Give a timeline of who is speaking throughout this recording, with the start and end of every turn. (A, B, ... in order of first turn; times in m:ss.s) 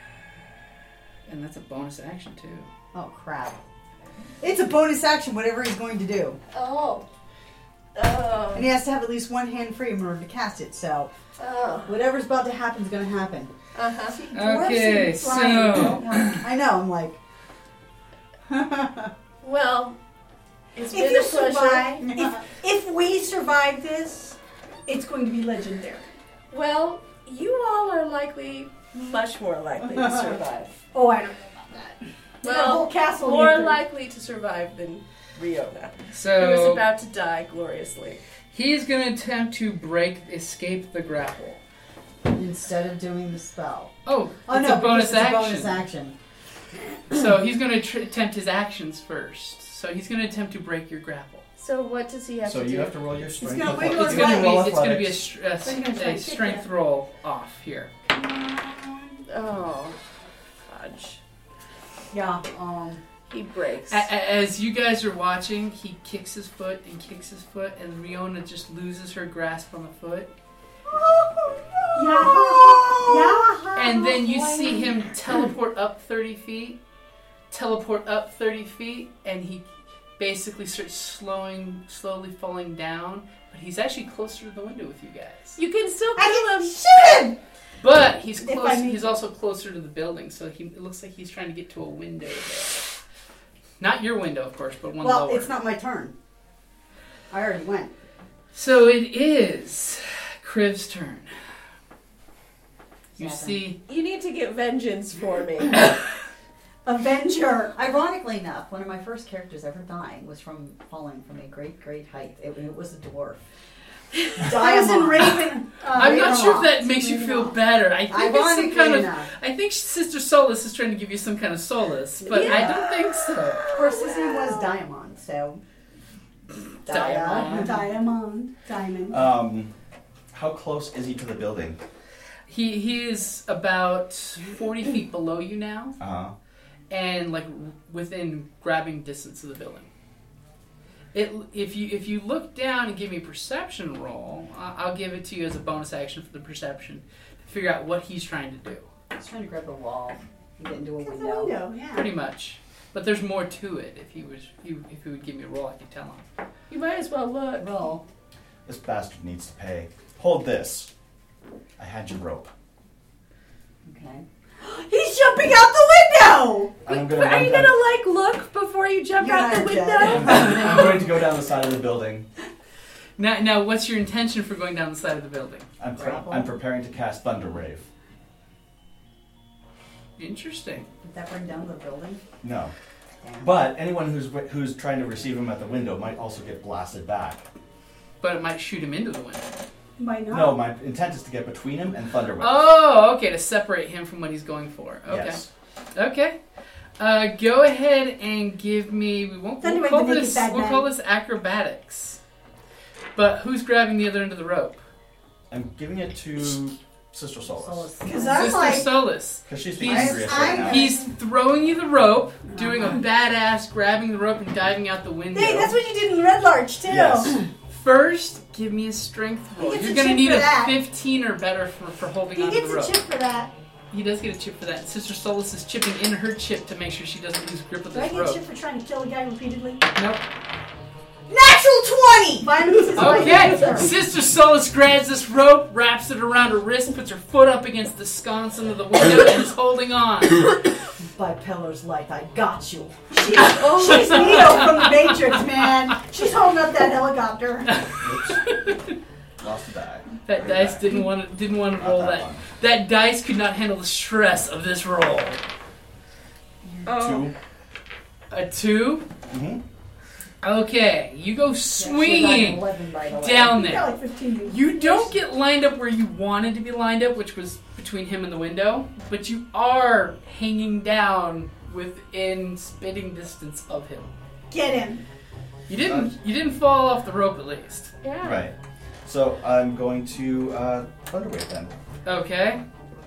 0:01.2-0:02.7 A
0:02.9-0:03.6 B
0:04.4-0:06.4 B
0:06.5-0:07.0 C
0:07.9-0:08.7 C
0:08.5-0:11.1 B
0:11.4-0:11.9 C
0:11.8-0:13.5 B
0:13.7-0:14.2 C
0:14.1-0:16.2 D
0:14.3-0:16.4 A
0:15.2-0:17.2 B
0:18.5-0:19.1 B
0:19.4-0:20.0 C
0:20.7-0:22.1 C
0:20.9-0:26.0 D
0:26.5-0:30.8 C
0:30.9-0:33.8 D
0:32.4-0:38.2 C
0:36.1-0:36.8 A
0:38.5-0:41.6 A
0:42.2-0:43.9 B
0:44.0-0:45.8 A
0:44.4-0:46.1 B
0:47.1-0:51.4 A
0:51.6-0:53.3 C
0:52.4-0:55.3 E
0:53.4-0:54.7 B
0:53.6-0:57.9 A
0:55.6-0:56.7 D
0:58.0-0:59.2 B
0:59.3-1:00.0 C
1:00.7-1:01.2 C
1:02.1-1:03.0 B
1:03.3-1:04.1 C
1:03.9-1:10.3 A
1:10.9-1:13.6 B
1:11.9-1:14.8 D
1:13.7-1:16.8 A
1:17.5-1:25.6 A
1:25.6-1:27.2 C
1:26.2-1:27.3 B
1:27.8-1:32.9 A
1:28.4-1:29.2 D
1:33.8-1:35.5 A
1:35.0-1:36.1 B
1:37.3-1:37.9 B
1:38.5-1:41.3 A
1:43.2-1:43.6 B
1:43.2-1:43.8 A
1:43.9-1:46.0 C
1:46.8-1:47.7 D
1:47.7-1:53.4 B
1:54.4-1:56.8 B
1:54.4-1:57.6 D
1:55.9-2:03.6 A
1:58.0-1:59.3 B
2:02.2-2:04.7 C
2:02.4-2:02.8 B
2:03.7-2:05.6 B
2:06.8-2:07.8 A
2:06.8-2:07.8 B
2:07.1-2:09.3 D
2:09.1-2:09.7 E
2:10.3-2:11.8 E
2:12.5-2:16.0 A
2:16.0-2:16.3 E
2:16.9-2:19.9 A
2:21.1-2:28.9 A
2:29.2-2:31.6 B
2:31.0-2:32.1 D
2:31.9-2:36.2 A
2:36.7-2:37.9 C
2:37.6-2:38.0 B
2:38.6-2:40.9 E
2:41.8-2:42.5 E
2:43.8-2:44.2 B
2:44.6-2:46.8 D
2:46.8-2:47.8 E
2:46.9-2:50.8 C
2:49.2-2:51.0 B
2:49.8-2:50.0 D
2:50.0-2:52.3 E
2:53.2-2:55.7 A
2:55.8-2:57.9 E
2:55.9-2:56.6 B
3:00.2-3:00.9 A
3:01.0-3:02.2 B
3:02.4-3:02.7 E
3:03.2-3:03.5 B
3:03.4-3:07.4 E
3:08.2-3:09.5 A
3:10.0-3:10.6 D
3:10.3-3:12.7 E
3:12.4-3:15.4 A
3:15.1-3:15.5 E
3:15.9-3:16.4 A
3:17.0-3:22.2 A
3:19.6-3:20.9 D
3:23.1-3:24.8 A
3:25.5-3:27.9 E
3:27.6-3:28.8 B
3:28.0-3:29.0 D
3:28.3-3:35.8 A
3:29.3-3:30.9 E
3:29.8-3:30.7 B
3:29.9-3:31.0 D
3:32.6-3:32.9 D
3:35.3-3:37.4 D
3:36.9-3:37.4 E
3:37.7-3:43.0 A
3:39.6-3:40.8 D
3:42.3-3:43.5 D
3:43.9-3:48.4 A
3:47.9-3:49.8 D
3:49.9-3:50.2 A
3:51.3-3:53.8 B
3:52.4-3:53.9 D
3:52.9-4:00.5 A
4:01.1-4:04.7 B
4:03.1-4:07.7 D
4:03.4-4:04.7 C
4:05.2-4:06.0 B
4:07.7-4:08.9 A
4:07.9-4:08.7 E
4:09.4-4:11.1 E
4:10.2-4:15.4 A
4:11.7-4:12.4 E
4:16.8-4:17.3 C
4:16.9-4:17.3 E
4:18.3-4:19.0 A
4:19.3-4:19.6 E
4:20.4-4:34.1 A
4:21.7-4:23.7 B
4:23.4-4:25.1 D
4:34.5-4:35.0 D
4:35.7-4:37.9 A
4:35.8-4:36.1 E
4:38.0-4:38.5 C
4:38.2-4:41.7 E
4:42.0-4:42.6 A